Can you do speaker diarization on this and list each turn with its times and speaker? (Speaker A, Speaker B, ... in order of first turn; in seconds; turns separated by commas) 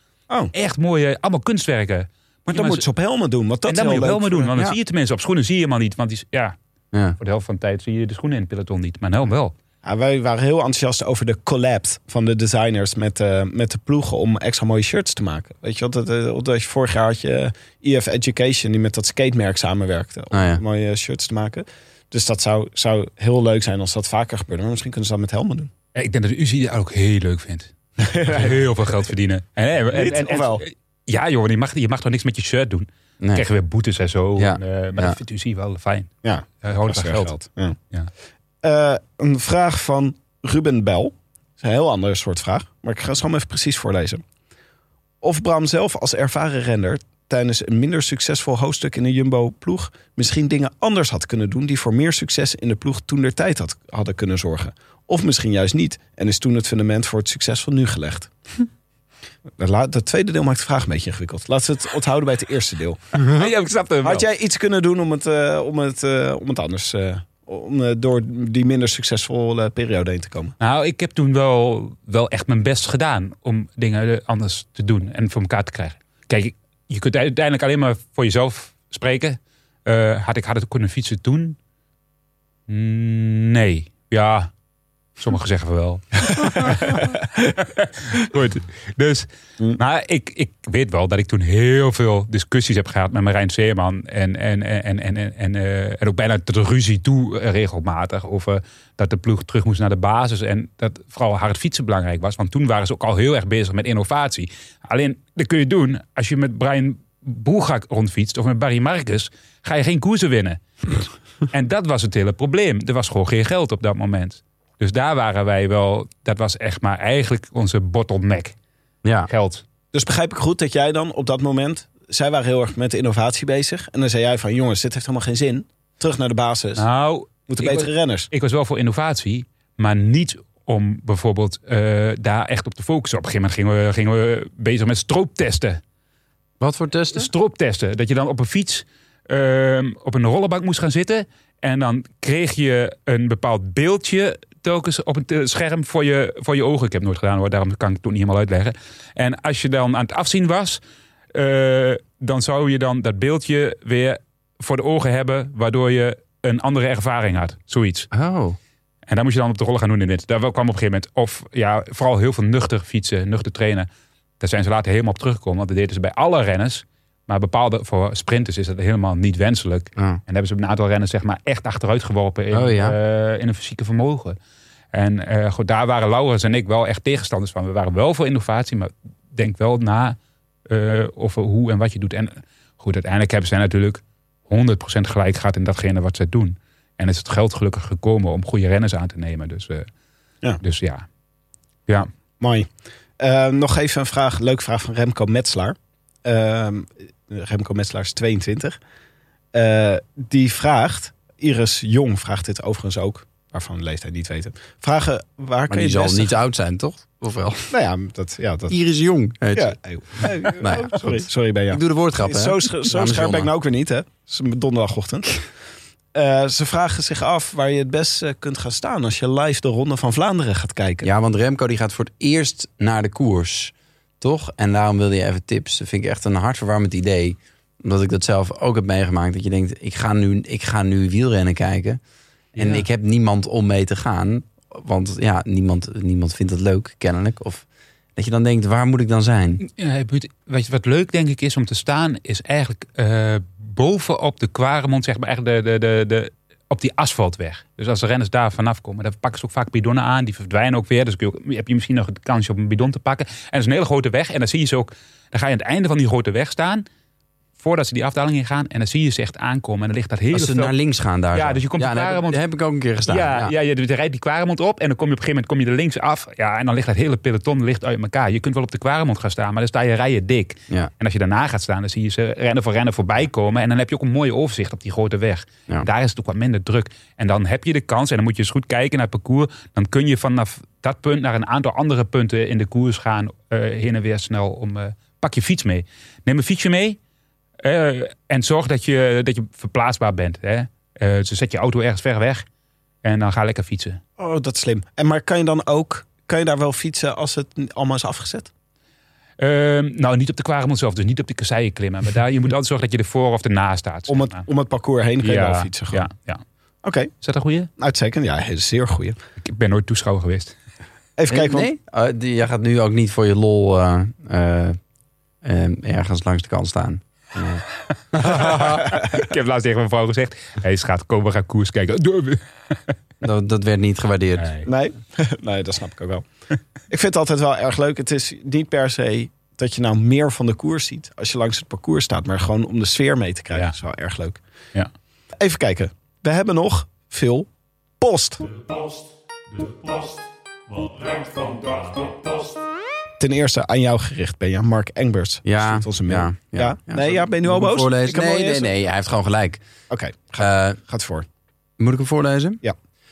Speaker A: 0.5-2.8, Speaker B: 2.5-4.5, Speaker A: 3.6-6.5, Speaker A: 7.2-9.5, Speaker B: 9.8-25.7, Speaker C: 20.3-20.6, Speaker A: 25.9-36.1, Speaker B: 28.0-28.6, Speaker B: 29.9-30.6, Speaker C: 34.4-35.2, Speaker B: 36.2-37.8, Speaker A: 36.6-38.1, Speaker B: 38.6-44.2, Speaker B: 45.2-58.3, Speaker B: 59.6-63.0, Speaker A: 63.1-64.2, Speaker B: 64.0-70.5, Speaker A: 70.6-81.6, Speaker A: 82.7-84.5, Speaker A: 85.2-118.5, Speaker C: 119.0-119.3, Speaker A: 119.3-119.6, Speaker B: 119.9-126.8, Speaker A: 126.8-135.8, Speaker B: 127.5-128.3, Speaker C: 136.6-137.3, Speaker A: 137.1-150.8, Speaker A: 151.3-158.1, Speaker C: 158.1-158.6, Speaker A: 159.1-163.9, Speaker A: 164.4-174.4, Speaker C: 172.5-172.9, Speaker A: 174.9-180.2, Speaker A: 180.7-189.9, Speaker A: 190.6-191.1, Speaker B: 192.4-198.8, Speaker B: 199.5-206.3, Speaker C: 205.7-207.7, Speaker B: 207.7-208.7, Speaker C: 208.7-213.5, Speaker B: 209.5-215.4, Speaker B: 216.1-221.1, Speaker C: 221.0-232.0, Speaker A: 232.5-232.8, Speaker C: 232.6-237.6, Speaker C: 238.2-239.6, Speaker A: 239.6-256.9, Speaker A: 257.6-260.7, Speaker C: 260.3-263.5, Speaker A: 261.3-262.4, Speaker A: 263.1-287.0, Speaker A: 287.6-292.4, Speaker A: 293.0-294.0, Speaker B: 294.2-298.5, Speaker A: 299.4-304.4, Speaker B: 304.1-306.1, Speaker A: 305.2-306.4, Speaker B: 306.8-307.1, Speaker A: 307.2-307.7, Speaker B: 307.8-309.2, Speaker A: 309.4-310.5, Speaker B: 311.2-311.7, Speaker C: 311.3-314.8, Speaker C: 315.4-317.6, Speaker C: 318.1-318.8, Speaker A: 318.2-322.8, Speaker B: 318.9-319.2, Speaker C: 323.2-324.5, Speaker A: 324.4-324.7, Speaker B: 324.6-326.3, Speaker B: 326.9-334.4, Speaker B: 335.4-337.5, Speaker B: 338.0-338.4, Speaker D: 338.5-342.6, Speaker B: 343.2-348.7, Speaker C: 345.4-349.6, Speaker B: 349.9-351.3, Speaker C: 350.4-350.8, Speaker C: 351.8-352.6